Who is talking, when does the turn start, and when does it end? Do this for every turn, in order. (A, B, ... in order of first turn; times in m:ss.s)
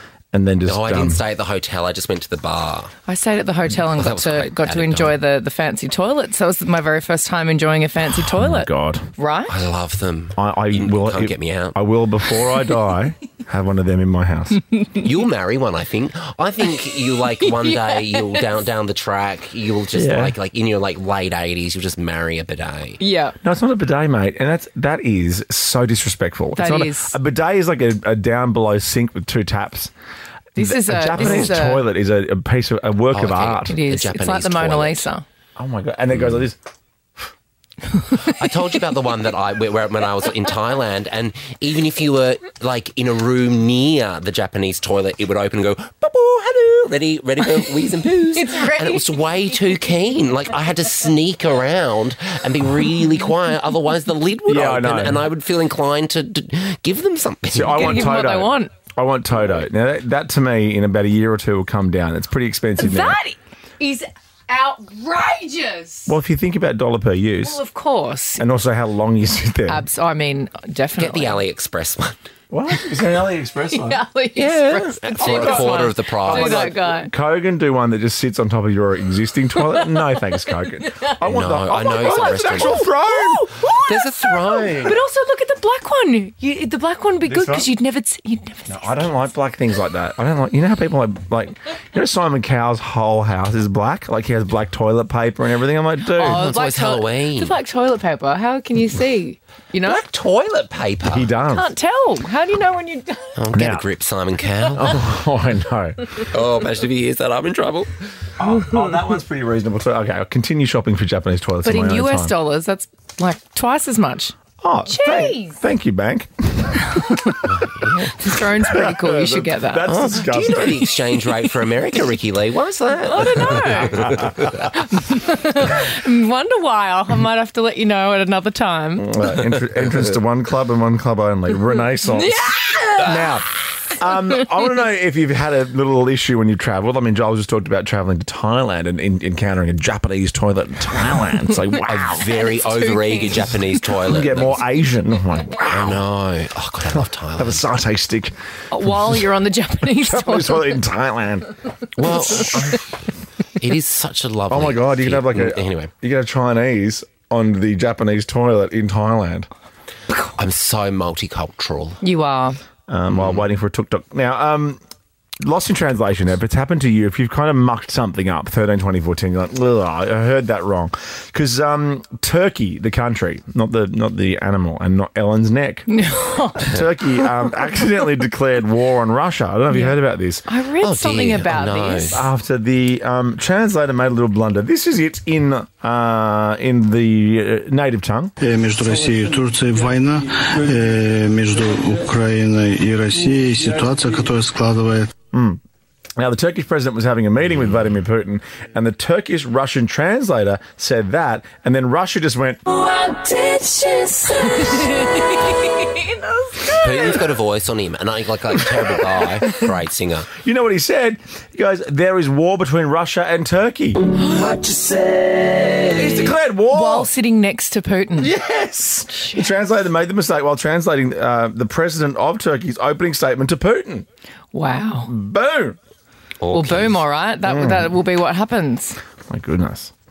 0:00.3-0:01.2 A
0:00.7-0:02.9 B
0:03.0-0:09.5 C
0:03.7-0:05.2 B
0:08.1-0:09.1 A
0:09.5-0:11.8 B
0:10.4-0:14.6 A
0:15.0-0:23.0 B
0:17.7-0:18.2 C
0:19.9-0:20.4 A
0:23.0-0:23.4 C
0:23.4-0:29.9 A
0:26.6-0:27.2 C
0:30.6-0:31.9 C
0:30.6-0:33.8 A
0:31.1-0:31.5 B
0:33.1-0:35.1 B
0:33.6-0:35.2 C
0:35.6-0:36.6 A
0:38.1-0:58.2 B
0:48.4-0:49.2 C
0:54.5-0:55.3 A
0:57.5-1:03.2 A
0:57.7-0:58.7 C
1:02.8-1:06.1 C
1:06.1-1:07.6 A
1:07.4-1:08.4 C
1:08.4-1:09.8 A
1:09.7-1:11.4 C
1:11.0-1:12.2 B
1:12.5-1:14.0 A
1:13.7-1:17.1 C
1:14.4-1:16.7 B
1:15.2-1:23.5 A
1:20.9-1:21.2 C
1:21.2-1:22.8 B
1:21.8-1:29.1 C
1:23.9-1:24.7 B
1:24.4-1:25.0 A
1:27.3-1:27.7 A
1:28.7-1:36.4 A
1:36.2-1:37.6 B
1:36.2-1:40.0 C
1:39.8-1:41.3 B
1:41.1-1:41.7 A
1:41.5-1:43.4 C
1:43.4-1:44.9 B
1:43.5-1:43.8 A
1:44.7-1:46.1 A
1:46.3-1:47.9 B
1:48.4-1:52.3 A
1:51.6-1:54.3 C
1:54.6-1:57.4 A
1:54.9-1:55.6 C
1:56.9-1:57.4 C
1:57.5-1:58.1 B
1:58.0-2:00.1 C
1:58.6-2:00.9 A
1:59.9-2:04.6 B
2:03.0-2:09.1 C
2:04.2-2:04.5 A
2:09.0-2:22.3 A
2:12.1-2:13.2 C
2:21.8-2:24.6 B
2:22.7-2:23.2 C
2:24.1-2:26.0 A
2:25.6-2:27.6 B
2:26.9-2:29.2 A
2:28.7-2:30.8 C
2:30.0-2:31.6 A
2:32.0-2:32.9 B
2:33.6-2:35.9 B
2:34.5-2:39.5 A
2:40.3-2:42.0 B
2:42.0-2:42.6 C
2:42.9-2:44.8 A
2:43.1-2:43.4 B
2:45.4-2:55.9 A
2:55.9-2:56.7 C
2:56.6-3:00.4 A
2:59.7-3:02.3 C
3:00.8-3:02.2 B
3:02.1-3:08.3 A
3:08.4-3:15.1 D
3:15.3-3:15.6 A
3:16.2-3:22.6 A
3:22.9-3:26.8 C
3:26.7-3:30.3 B
3:30.4-3:34.0 A
3:34.4-3:35.2 C
3:35.8-3:37.1 A
3:36.7-3:38.3 C
3:38.2-3:44.1 A
3:44.5-3:45.1 C
3:45.1-3:45.8 A
3:46.4-3:47.0 B
3:46.5-3:49.0 C
3:47.4-3:47.9 A
3:49.3-3:49.9 A